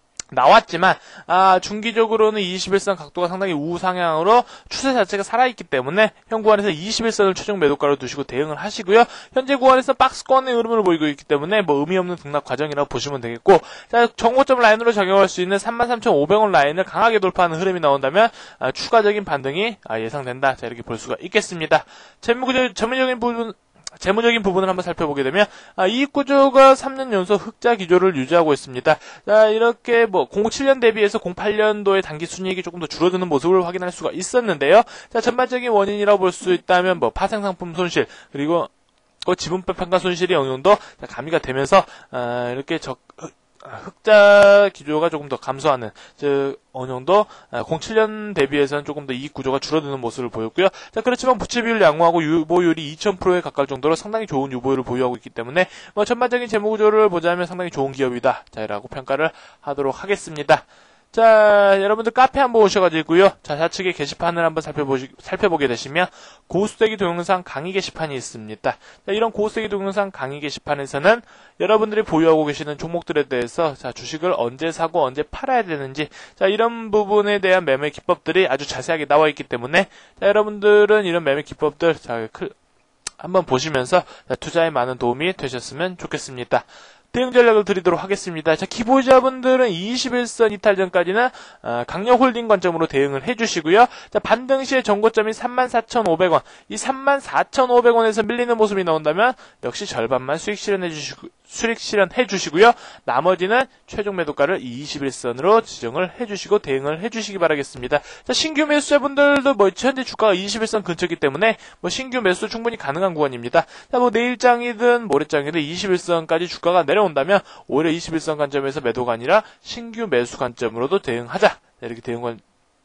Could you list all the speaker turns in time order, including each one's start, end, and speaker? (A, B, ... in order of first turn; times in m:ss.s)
0:00.3-0:38.7 A
0:39.2-1:22.5 A
1:23.2-2:02.4 A